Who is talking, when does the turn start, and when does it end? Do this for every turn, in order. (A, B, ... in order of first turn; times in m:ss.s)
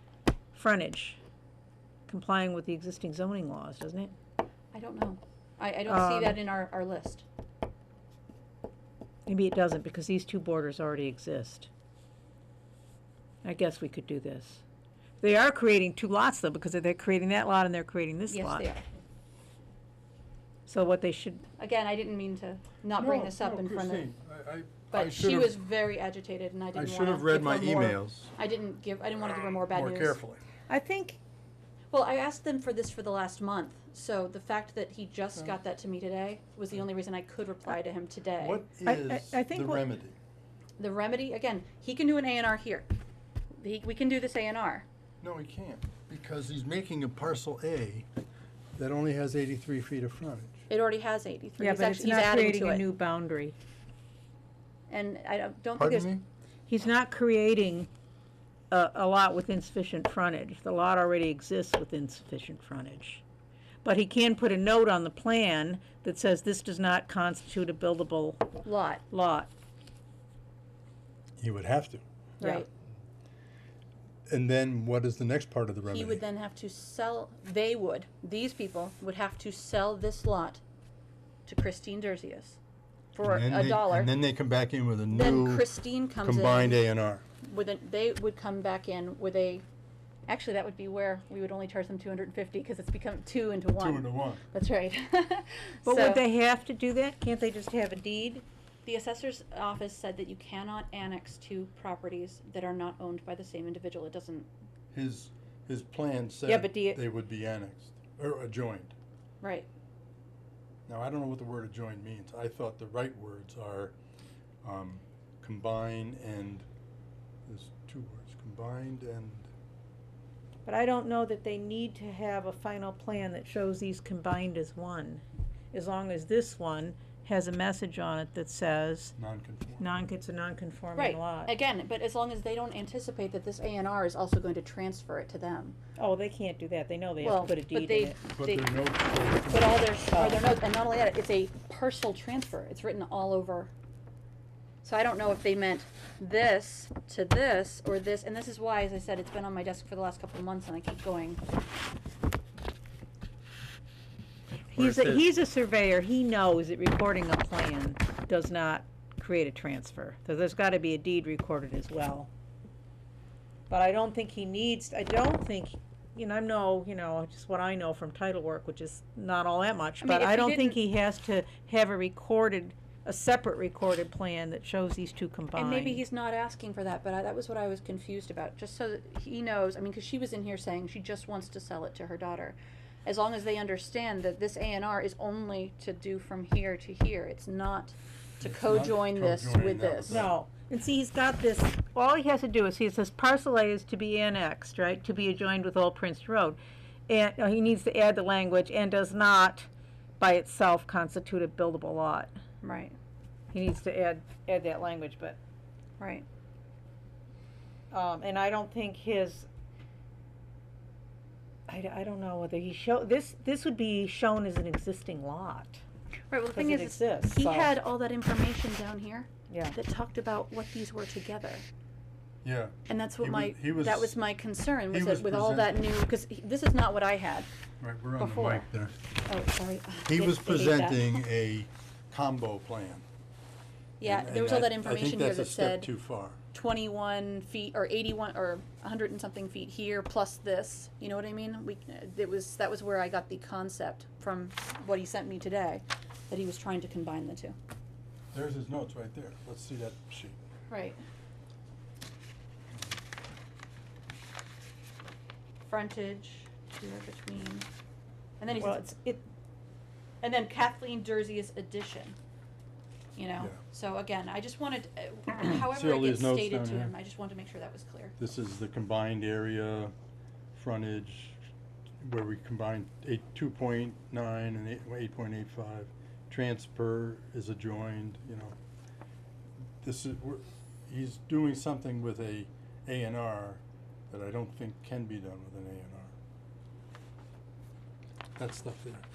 0:00.5-0:01.2 A
0:02.1-0:04.1 A
0:04.7-0:07.2 B
0:05.9-0:06.4 A
0:09.3-0:11.7 A
0:13.4-0:14.6 A
0:15.2-0:18.6 A
0:18.3-0:18.8 B
0:20.7-0:21.4 A
0:21.6-0:24.1 B
0:23.0-0:25.6 C
0:24.9-0:30.2 B
0:26.7-0:28.3 C
0:29.7-0:30.4 C
0:30.7-0:31.2 A
0:31.9-0:38.6 B
0:38.4-0:40.2 C
0:38.8-0:39.8 A
0:40.8-0:42.9 B
0:43.6-0:44.8 B
0:45.2-0:48.1 C
0:48.8-0:50.6 C
0:50.7-0:52.8 B
0:51.6-0:53.5 A
0:54.9-0:56.1 B
0:55.8-0:56.2 C
0:56.7-0:57.9 A
0:58.7-1:03.2 A
1:03.8-1:08.5 A
1:08.6-1:09.0 B
1:09.1-1:09.5 A
1:11.4-1:12.0 C
1:12.4-1:12.7 A
1:12.4-1:12.7 B
1:14.3-1:16.2 C
1:15.8-1:20.6 B
1:21.5-1:22.6 B
1:23.1-1:24.1 B
1:23.2-1:25.6 C
1:25.1-1:26.8 B
1:26.2-1:27.2 C
1:27.4-1:29.6 B
1:30.3-1:36.2 B
1:33.8-1:34.4 C
1:35.8-1:38.4 A
1:38.8-1:44.5 B
1:44.9-1:48.9 C
1:46.4-1:47.0 A
1:49.4-1:49.7 B
1:50.9-1:53.9 C
1:54.6-1:56.6 C
1:57.4-1:59.5 C
2:00.6-2:09.1 A
2:09.2-2:09.9 C
2:09.8-2:11.5 A
2:10.9-2:15.8 B
2:16.0-2:18.2 A
2:17.2-2:18.8 B
2:18.4-2:19.9 C
2:19.5-2:23.7 B
2:20.1-2:20.4 A
2:24.8-2:31.4 B
2:34.7-2:42.3 A
2:34.7-2:35.3 C
2:43.7-2:56.0 A
2:50.0-2:50.8 B
2:55.5-3:10.2 B
3:08.4-3:10.3 C
3:10.1-3:19.7 A
3:20.2-3:22.3 A
3:22.6-3:23.0 B
3:23.5-3:25.4 A
3:26.0-3:26.2 B
3:27.9-3:29.5 A
3:31.7-3:35.8 A
3:36.3-3:41.6 B
3:36.5-3:37.7 A
3:39.5-3:39.8 A
3:42.4-3:44.1 C
3:42.9-3:47.5 B
3:44.9-3:45.8 C
3:47.8-3:48.9 C
3:48.2-3:48.6 B
3:49.2-3:51.1 B
3:50.0-3:53.0 C
3:54.0-3:55.9 B
3:54.0-3:56.4 C
3:56.5-4:07.5 B
4:08.3-4:10.4 C
4:10.7-4:11.0 B
4:15.6-4:17.7 B
4:18.4-4:19.2 B
4:18.6-4:19.2 A
4:20.2-4:22.2 B
4:23.2-4:28.1 B
4:25.6-4:26.9 C
4:28.2-4:29.9 C
4:30.5-4:31.4 C
4:32.0-4:38.6 C
4:39.8-4:46.1 C
4:48.4-4:49.0 C